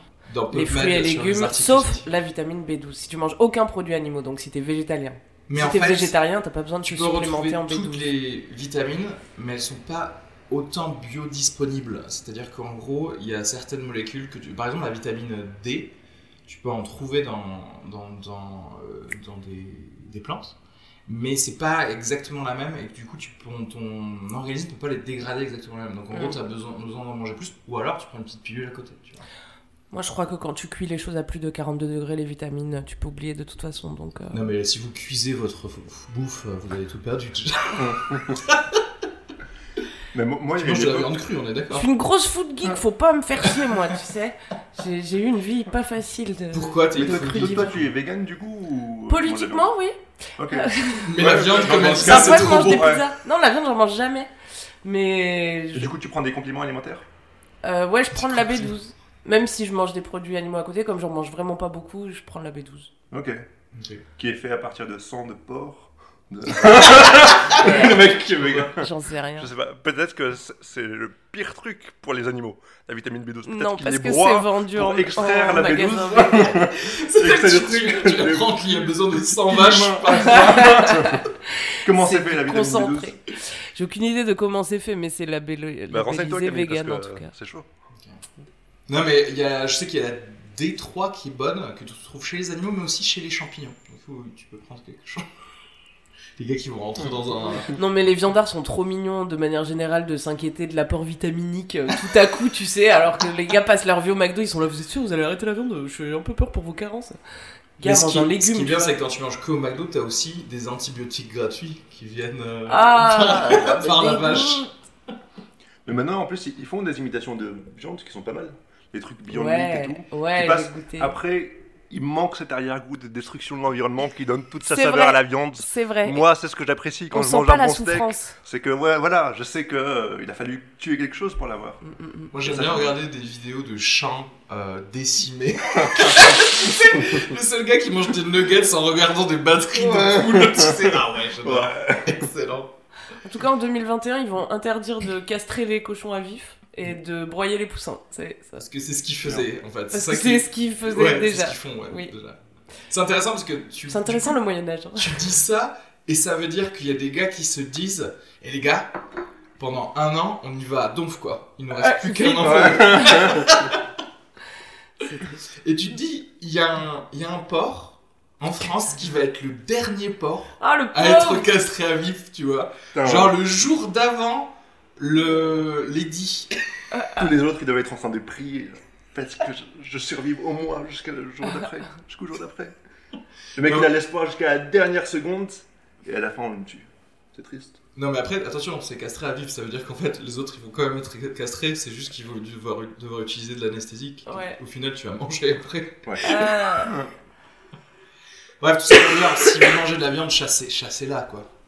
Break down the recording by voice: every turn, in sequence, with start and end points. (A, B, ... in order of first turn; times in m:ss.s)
0:00.3-0:02.1 A
0:00.5-0:08.1 B
0:05.5-0:06.2 A
0:06.8-0:16.0 A
0:16.5-0:29.3 A
0:29.9-0:34.4 B
0:34.3-0:38.8 A
0:37.8-0:38.4 C
0:40.1-0:41.1 C
0:40.6-0:41.9 A
0:41.7-0:47.8 B
0:46.5-0:47.9 A
0:47.0-0:49.7 C
0:49.1-0:54.3 B
0:50.4-0:53.1 C
0:51.0-0:52.9 A
0:54.8-0:55.9 B
0:55.7-0:57.0 C
0:57.6-1:02.9 B
0:58.2-0:58.7 A
1:03.1-1:03.4 C
1:03.7-1:04.1 A
1:04.2-1:21.2 C
1:07.0-1:08.5 A
1:07.5-1:09.5 B
1:13.5-1:16.7 B
1:16.8-1:21.1 A
1:20.2-1:27.3 B
1:21.8-1:23.2 C
1:25.9-1:27.7 C
1:27.9-1:28.2 A
1:28.9-1:35.3 A
1:36.4-1:37.7 A
1:37.0-1:37.8 C
1:37.7-1:47.2 B
1:47.8-1:48.9 B
1:47.8-1:54.7 A
1:52.7-1:54.7 B
1:55.8-2:11.8 C
1:59.3-2:01.1 B
2:04.7-2:06.2 B
2:07.1-2:08.4 B
2:11.8-2:12.3 B
2:12.3-2:22.8 A
2:12.4-2:12.9 C
2:15.7-2:17.2 C
2:19.7-2:22.3 C
2:23.2-2:28.6 B
2:28.6-2:32.4 A
2:29.9-2:32.1 B
2:32.9-2:34.4 A
2:33.9-2:35.3 B
2:35.0-2:38.9 A
2:39.6-2:43.8 A
2:41.8-2:43.4 B
2:42.4-2:43.7 C
2:45.0-2:45.4 B
2:45.6-2:56.6 A
2:50.6-2:51.5 B
2:52.9-2:53.3 C
2:56.9-2:57.3 B
2:57.2-3:02.8 C
3:03.6-3:07.8 C
3:03.6-3:03.9 A
3:08.0-3:16.5 A
3:14.3-3:14.6 B
3:16.0-3:17.1 C
3:16.2-3:17.0 B
3:18.6-3:21.5 A